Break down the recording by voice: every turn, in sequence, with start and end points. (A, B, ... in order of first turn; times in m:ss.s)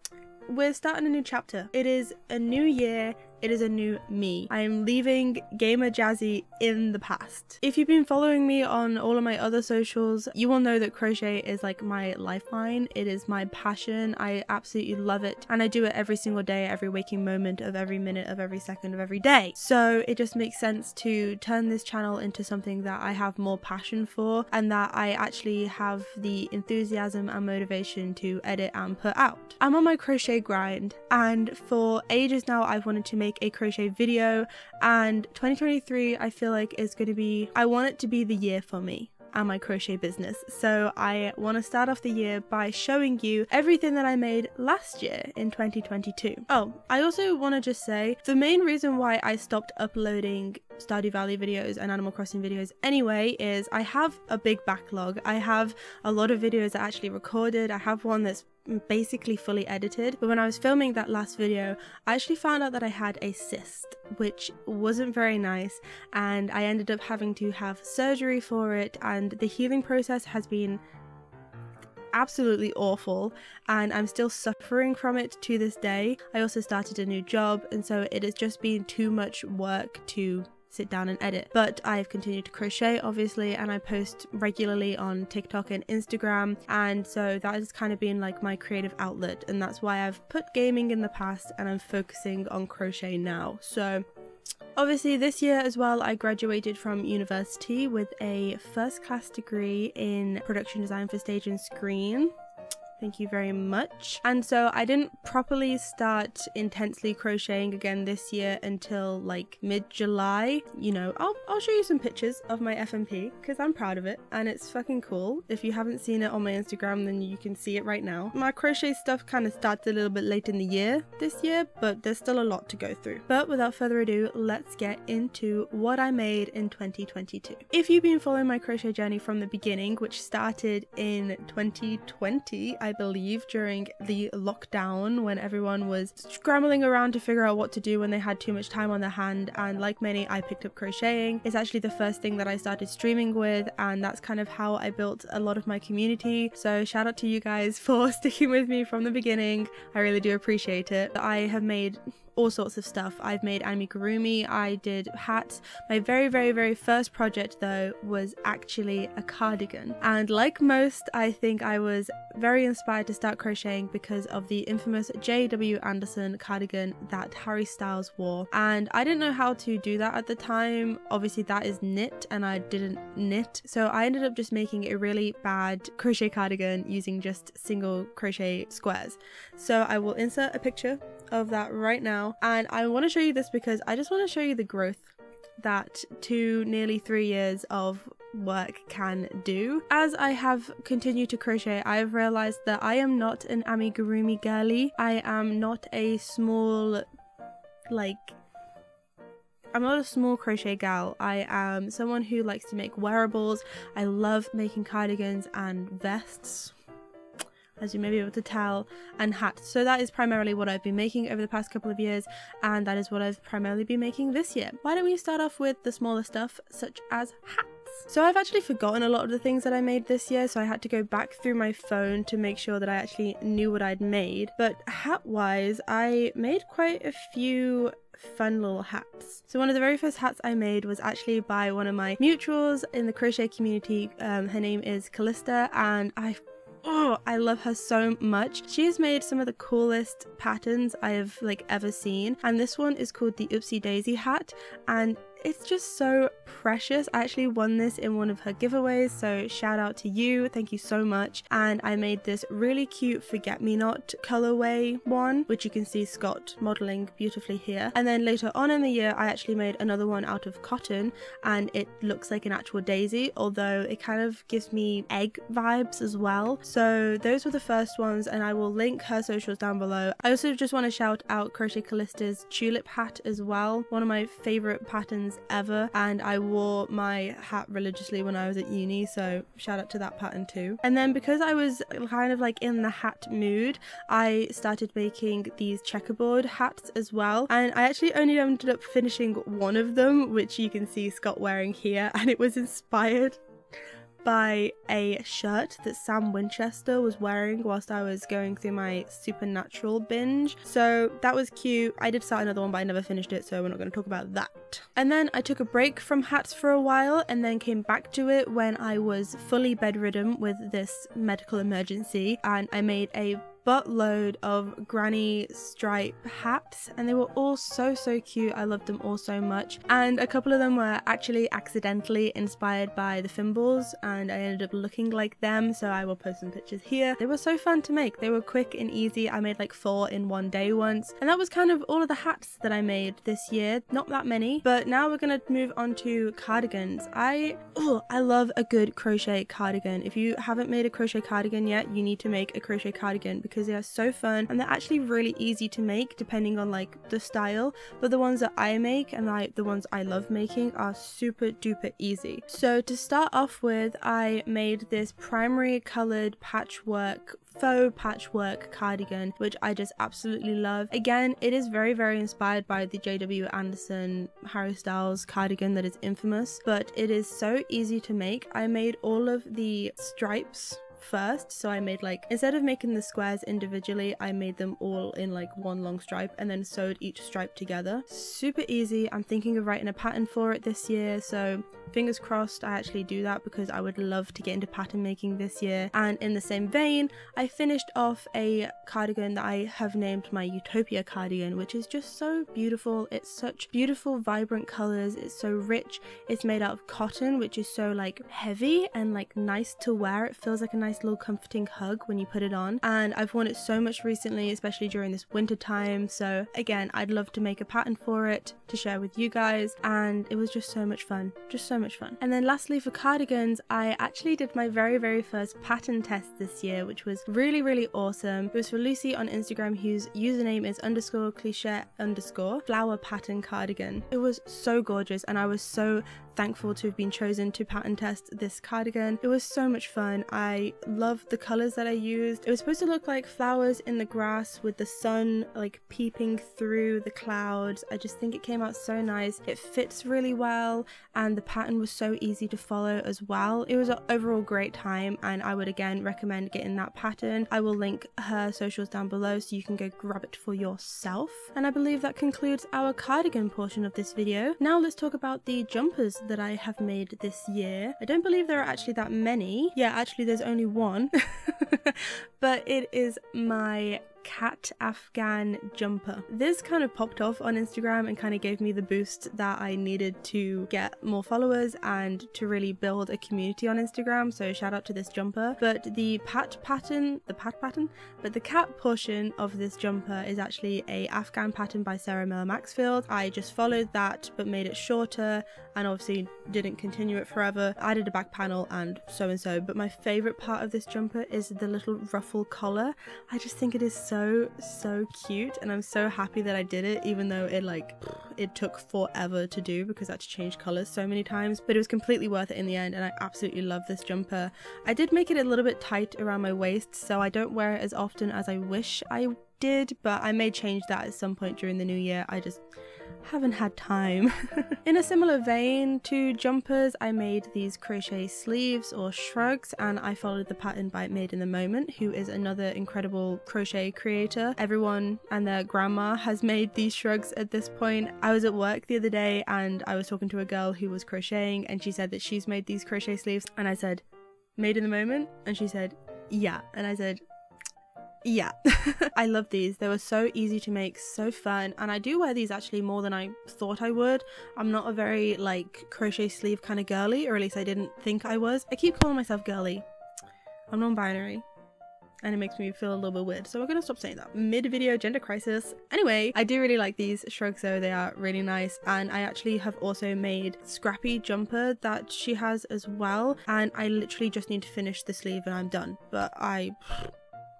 0:00.5-1:10.8 A
1:12.1-1:34.1 A
1:34.8-1:42.3 A
1:43.0-3:17.1 A
3:17.9-3:18.4 A
3:19.7-3:26.8 A
3:27.8-4:53.4 A
4:54.2-8:32.6 A
8:33.2-8:54.0 A
8:54.6-8:57.2 A
8:58.2-9:09.9 A
9:10.7-9:11.5 A
9:12.2-9:27.1 A